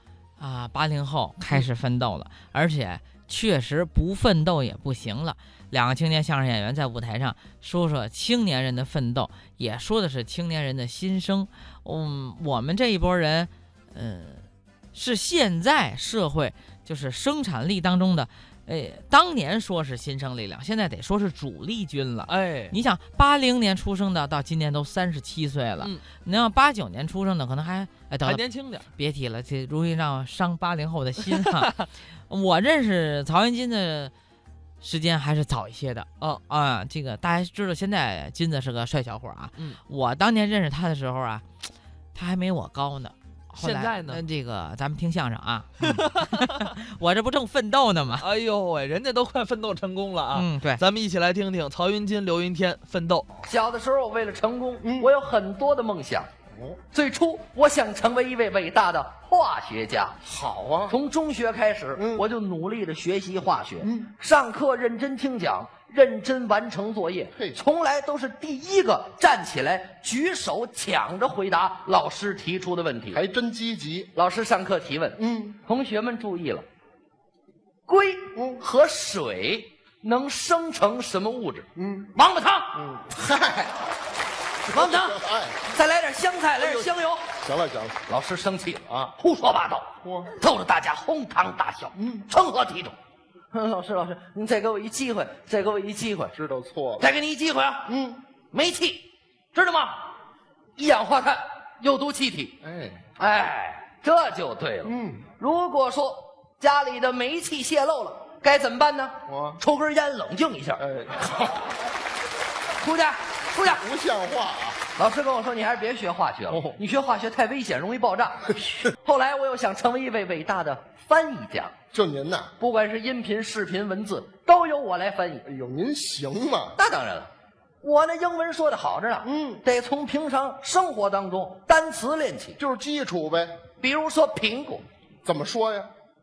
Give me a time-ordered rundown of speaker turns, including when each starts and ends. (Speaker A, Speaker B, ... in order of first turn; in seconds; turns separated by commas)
Speaker A: 0.4-34.1, Speaker B: 22.3-22.8, Speaker B: 28.2-28.8, Speaker A: 34.8-41.4, Speaker A: 42.1-48.3, Speaker B: 43.5-44.2, Speaker B: 45.9-46.4, Speaker B: 48.2-53.3, Speaker A: 50.3-50.8, Speaker C: 53.4-56.3, Speaker D: 54.8-55.1, Speaker D: 56.5-56.8, Speaker C: 56.9-60.2, Speaker D: 60.2-61.0, Speaker C: 60.9-73.2, Speaker D: 62.0-62.2, Speaker D: 63.8-64.1, Speaker D: 67.3-67.6, Speaker D: 73.1-74.1, Speaker C: 74.1-76.6, Speaker D: 75.2-75.6, Speaker C: 77.8-82.8, Speaker D: 78.3-78.6, Speaker D: 81.8-82.1, Speaker D: 82.7-83.7, Speaker D: 84.7-85.6, Speaker C: 84.7-87.2, Speaker D: 86.6-88.0, Speaker C: 88.1-93.0, Speaker D: 88.9-89.1, Speaker D: 90.0-90.3, Speaker D: 92.0-92.2, Speaker C: 93.5-96.3, Speaker D: 96.3-97.1, Speaker C: 97.0-97.9, Speaker D: 97.9-98.2, Speaker C: 98.5-100.1, Speaker C: 100.8-102.6, Speaker D: 102.6-103.1, Speaker C: 103.2-110.8, Speaker D: 104.8-105.3, Speaker D: 109.3-109.6, Speaker D: 110.8-111.7, Speaker C: 112.8-113.8, Speaker D: 113.6-114.8, Speaker C: 115.0-121.7, Speaker D: 116.5-116.8, Speaker D: 118.5-118.9, Speaker D: 121.9-122.5, Speaker C: 122.6-125.5, Speaker D: 125.4-126.8, Speaker C: 126.8-132.6, Speaker D: 129.2-129.6, Speaker D: 132.6-133.6, Speaker C: 133.8-134.8, Speaker D: 135.2-135.9